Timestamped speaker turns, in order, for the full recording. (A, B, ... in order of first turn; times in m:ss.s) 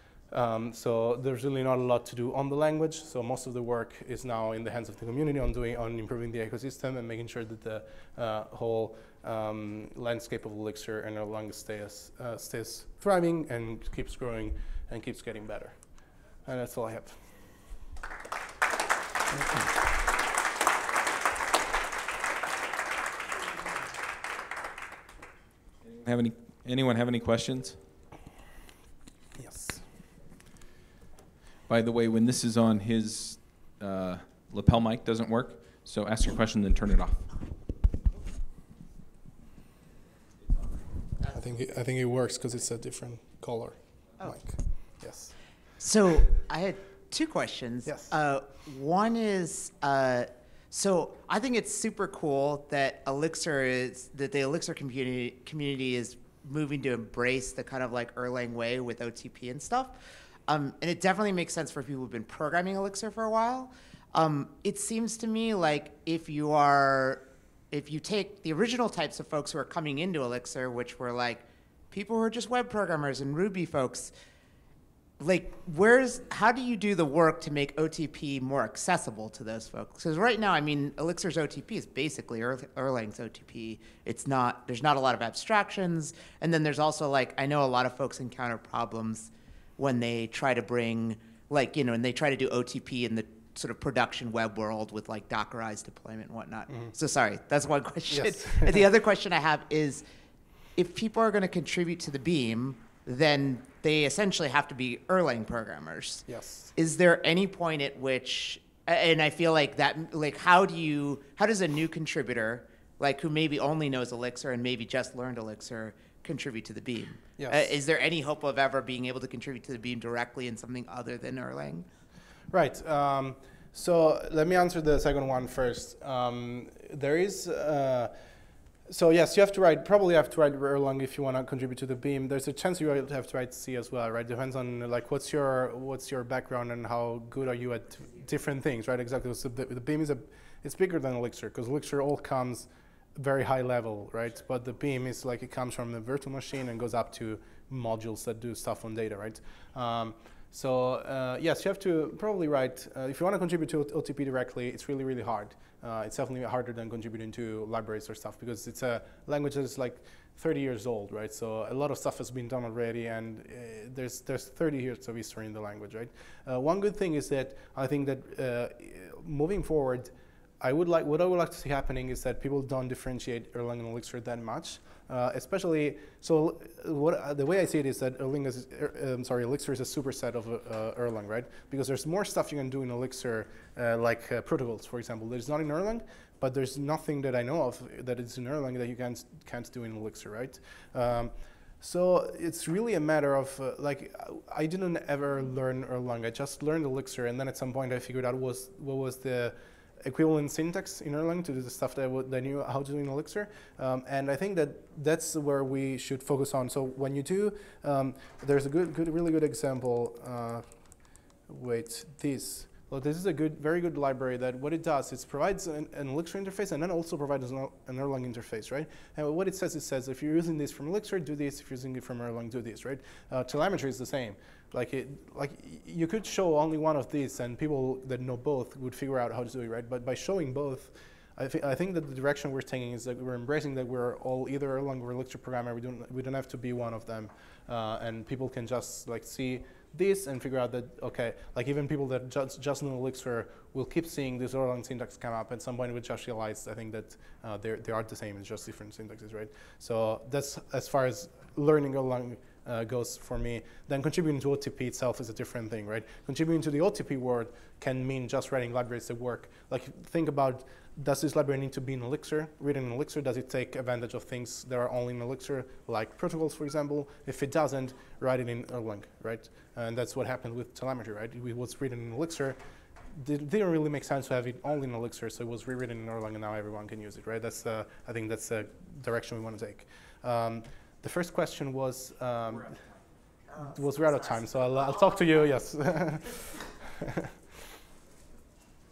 0:00.3-0:15.8 A
0:16.5-0:17.2 A
0:25.9-0:27.8 B
0:29.4-0:29.8 A
0:31.7-0:37.2 B
0:41.3-0:45.4 A
0:45.8-1:00.0 C
0:47.8-0:48.1 A
1:00.5-1:14.1 C
1:15.2-1:40.0 C
1:36.7-1:36.9 A
1:38.1-1:38.8 A
1:40.8-2:01.9 C
1:46.3-1:46.7 A
1:57.4-1:57.8 A
2:02.5-2:08.1 A
2:08.9-3:30.6 A
3:31.5-4:32.6 A
4:33.1-4:42.8 A
4:43.6-4:47.3 A